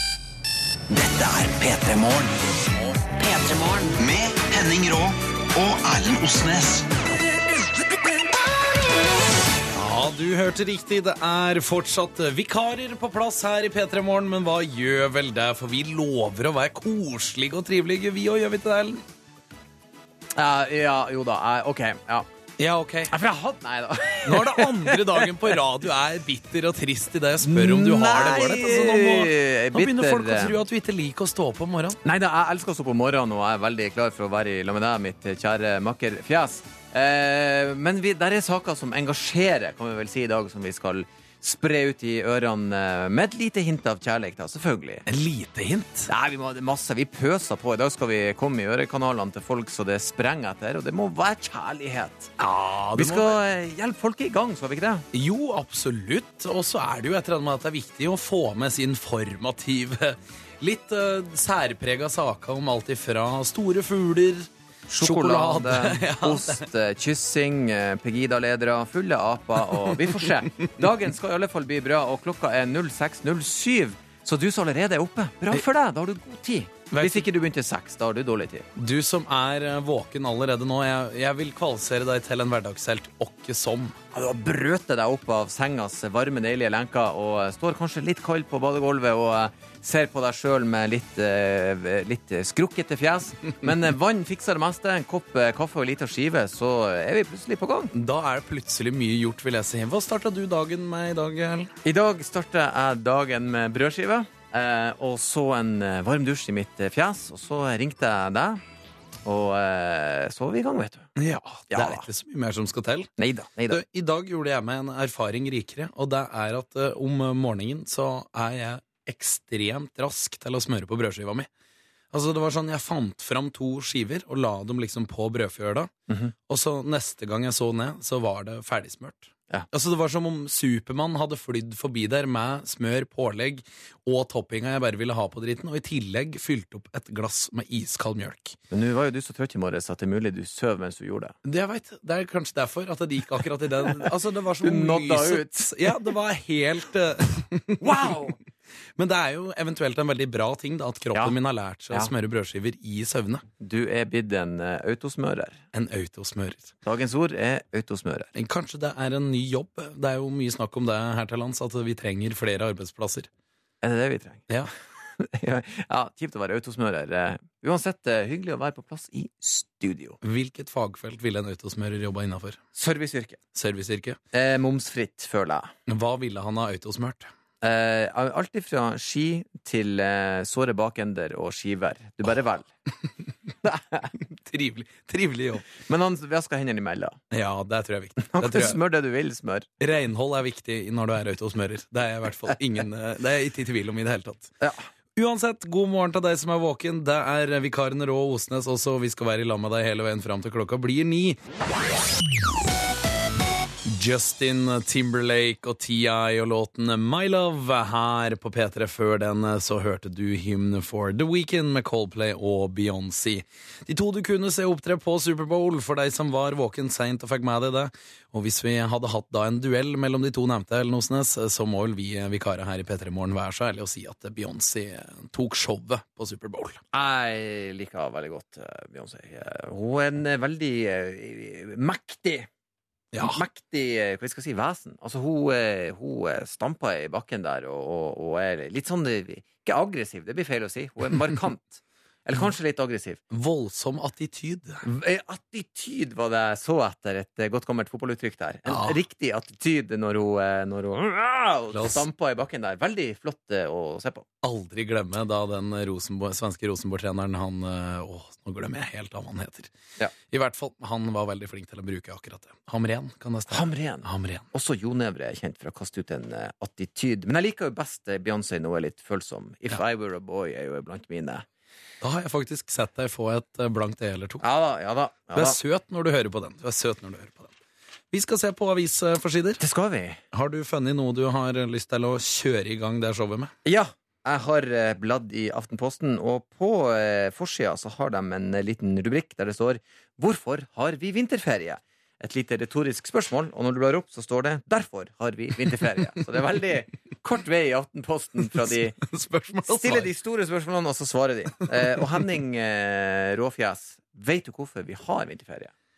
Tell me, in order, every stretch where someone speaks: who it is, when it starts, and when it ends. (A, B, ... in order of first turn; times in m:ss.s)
0:00.9-0:02.4 A
0:03.0-0:06.9 A
0:09.8-0:19.0 B
0:20.4-0:22.3 C
0:22.6-0:23.1 B
0:23.1-0:25.6 C
0:24.2-0:32.0 B
0:27.4-0:30.6 C
0:32.0-0:45.0 C
0:45.1-0:46.1 B
0:46.1-0:52.3 C
0:52.4-0:53.4 B
0:53.0-0:55.0 C
0:55.1-1:06.7 B
1:04.9-1:18.7 C
1:16.9-1:17.2 B
1:18.8-1:24.0 B
1:24.1-1:37.9 C
1:37.9-1:41.7 B
1:41.8-1:48.6 C
1:49.2-1:51.1 C
1:51.2-1:53.1 B
1:51.7-1:52.0 C
1:53.2-1:53.8 C
1:53.7-2:01.5 B
2:02.1-2:05.9 B
2:06.5-2:18.6 B
2:18.7-2:21.4 C
2:21.4-2:27.9 B
2:23.9-2:26.0 C
2:27.8-2:28.4 C
2:29.0-2:33.4 B
2:31.1-2:31.4 C
2:33.6-2:35.6 C
2:35.7-2:36.7 B
2:36.8-2:38.3 C
2:38.4-2:43.3 B
2:43.8-2:44.5 C
2:45.2-2:50.2 C
2:50.2-2:52.6 B
2:52.8-2:53.4 C
2:53.5-2:54.2 B
2:54.3-2:55.7 C
2:55.9-2:57.3 B
2:57.6-3:02.7 C
3:03.6-3:04.1 C
3:04.2-3:05.7 B
3:05.8-3:07.2 C
3:07.3-3:08.8 B
3:08.2-3:09.7 C
3:09.8-3:14.5 B
3:15.2-3:21.4 B
3:23.8-3:46.8 B
3:46.9-3:52.5 C
3:53.1-3:53.4 B
3:53.2-4:03.2 C
4:03.3-4:04.8 B
4:04.8-4:14.3 C
4:08.7-4:09.0 B
4:11.7-4:12.0 B
4:14.4-4:19.7 B
4:20.3-4:24.4 B
4:23.5-4:31.5 C
4:32.0-4:34.4 B
4:34.4-4:35.6 C
4:35.4-4:37.5 B
4:38.1-4:39.6 B
4:39.6-4:40.2 C
4:40.3-4:43.5 B
4:43.6-4:59.0 C
4:59.0-5:00.1 B
4:59.6-5:05.7 C